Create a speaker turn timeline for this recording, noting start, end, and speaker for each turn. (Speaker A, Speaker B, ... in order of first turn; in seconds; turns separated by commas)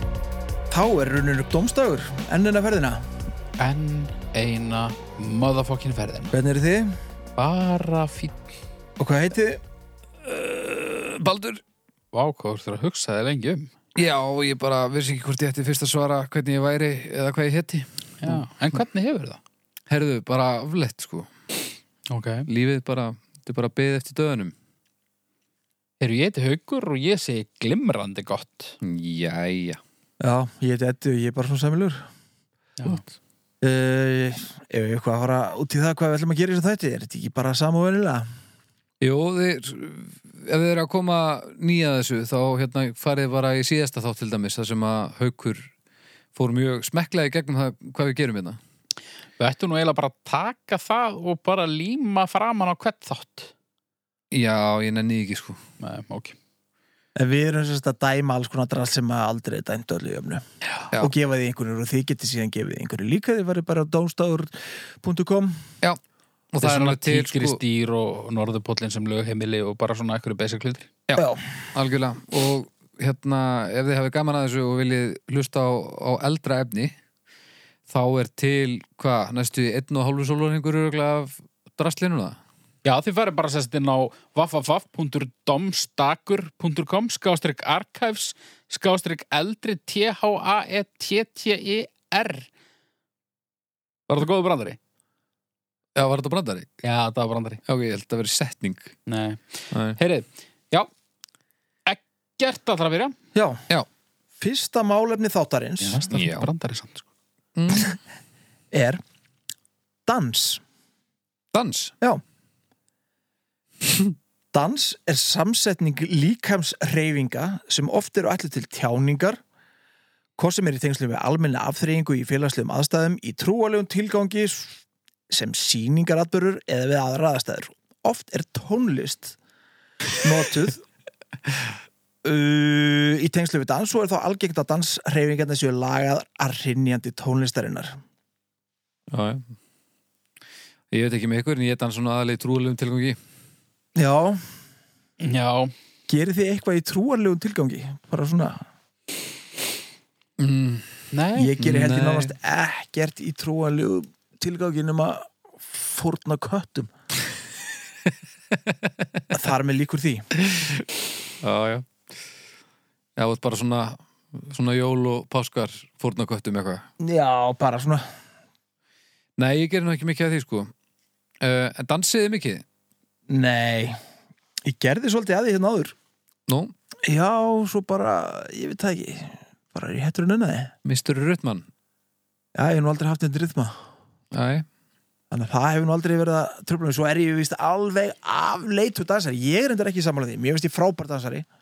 Speaker A: 0.7-3.1, Speaker B: 3.6-6.3, Speaker A: 6.3-6.9, Speaker B: 7.4-8.5, Speaker A: 9.0-9.6, Speaker C: 10.2-11.6, Speaker B: 12.1-13.7, Speaker C: 13.9-18.3, Speaker B: 18.2-19.4, Speaker C: 19.9-21.3, Speaker B: 22.1-22.5, Speaker C: 22.5-24.5, Speaker B: 26.0-28.8, Speaker C: 28.8-29.8, Speaker A: 30.2-32.0, Speaker A: 33.6-38.3, Speaker C: 39.0-45.7, Speaker C: 46.3-48.6, Speaker B: 49.4-53.5, Speaker C: 54.3-55.6, Speaker B: 55.8-56.4, Speaker A: 57.1-60.4, Speaker A: 61.0-65.6, Speaker C: 66.5-67.6, Speaker B: 66.6-70.9, Speaker C: 71.1-76.9, Speaker A: 71.2-71.4, Speaker C: 77.9-82.4, Speaker B: 82.8-92.5, Speaker B: 94.1-94.8, Speaker C: 96.0-96.7, Speaker B: 96.8-97.6, Speaker C: 97.7-98.9, Speaker B: 99.1-100.9, Speaker C: 99.7-100.0, Speaker B: 101.8-103.1, Speaker A: 103.3-103.6, Speaker A: 104.4-106.1, Speaker B: 105.8-107.0, Speaker C: 106.1-106.5, Speaker C: 107.5-108.0, Speaker A: 108.7-109.0, Speaker A: 110.0-110.6, Speaker C: 111.5-111.9, Speaker A: 114.5-119.4, Speaker A: 120.4-129.4, Speaker A: 130.2-130.8, Speaker A: 132.2-138.0, Speaker C: 139.1-139.4, Speaker C: 140.9-143.2, Speaker A: 143.9-144.4, Speaker B: 145.2-145.7, Speaker A: 146.1-148.6, Speaker C: 150.4-151.0, Speaker B: 151.1-151.5, Speaker A: 151.3-156.9, Speaker C: 151.6-152.3, Speaker A: 159.3-160.2, Speaker C: 160.4-160.8, Speaker C: 161.4-161.9, Speaker C: 163.2-166.8, Speaker A: 167.0-168.0, Speaker C: 169.4-170.7, Speaker C: 171.4-172.6, Speaker A: 173.3-173.9, Speaker A: 174.6-175.9, Speaker C: 176.5-176.7, Speaker A: 177.1-180.7, Speaker C: 180.8-181.7, Speaker A: 182.6-183.8, Speaker C: 184.3-184.7, Speaker A: 185.3-191.4